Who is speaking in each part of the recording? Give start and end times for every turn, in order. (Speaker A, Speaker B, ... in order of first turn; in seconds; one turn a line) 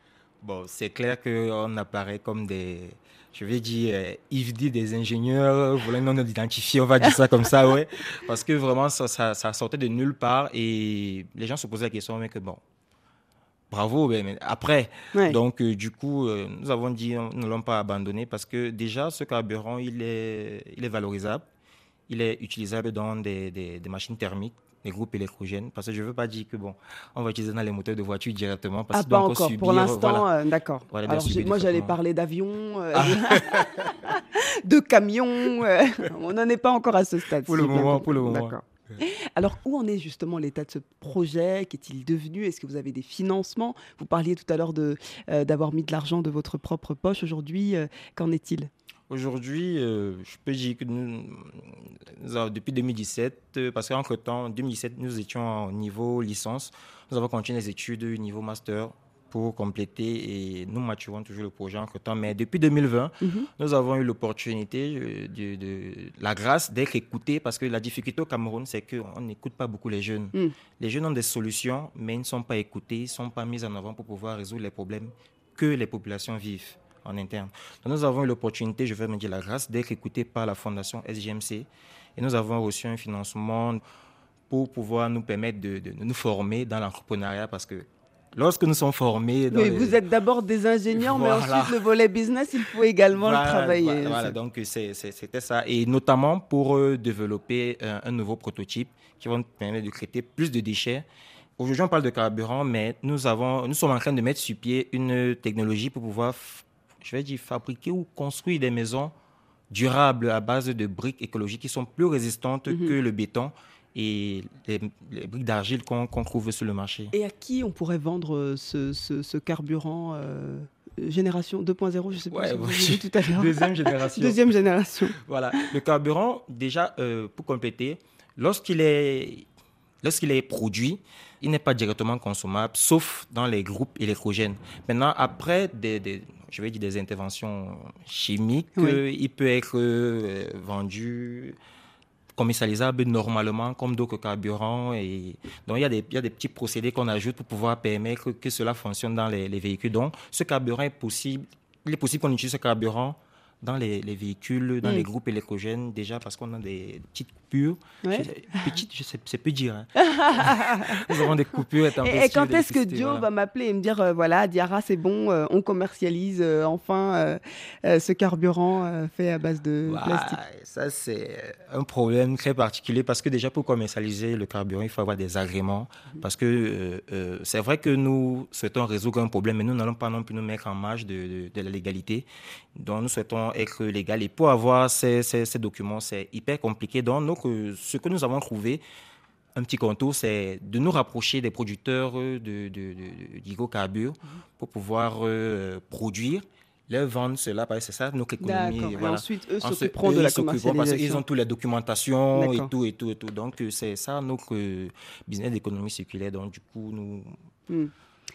Speaker A: 0.4-12.6
Speaker A: 13.7-21.5
Speaker B: 15.1-15.4
Speaker A: 22.1-30.3
Speaker B: 28.9-48.7
Speaker A: 30.9-31.9
Speaker A: 33.0-33.9
Speaker A: 37.5-39.0
Speaker A: 49.1-83.8
Speaker B: 63.2-63.5
Speaker A: 84.5-90.0
Speaker B: 89.5-94.4
Speaker A: 91.0-91.8
Speaker A: 93.2-101.0
Speaker A: 101.6-109.1
Speaker A: 109.7-117.1
Speaker B: 112.7-113.0
Speaker B: 117.1-125.2
Speaker A: 122.3-124.4
Speaker A: 125.2-129.5
Speaker A: 130.0-141.6
Speaker A: 142.4-163.3
Speaker B: 158.0-158.8
Speaker B: 160.0-161.3
Speaker B: 162.0-170.4
Speaker A: 169.9-188.8
Speaker A: 189.6-207.3
Speaker B: 198.4-201.2
Speaker B: 202.3-202.7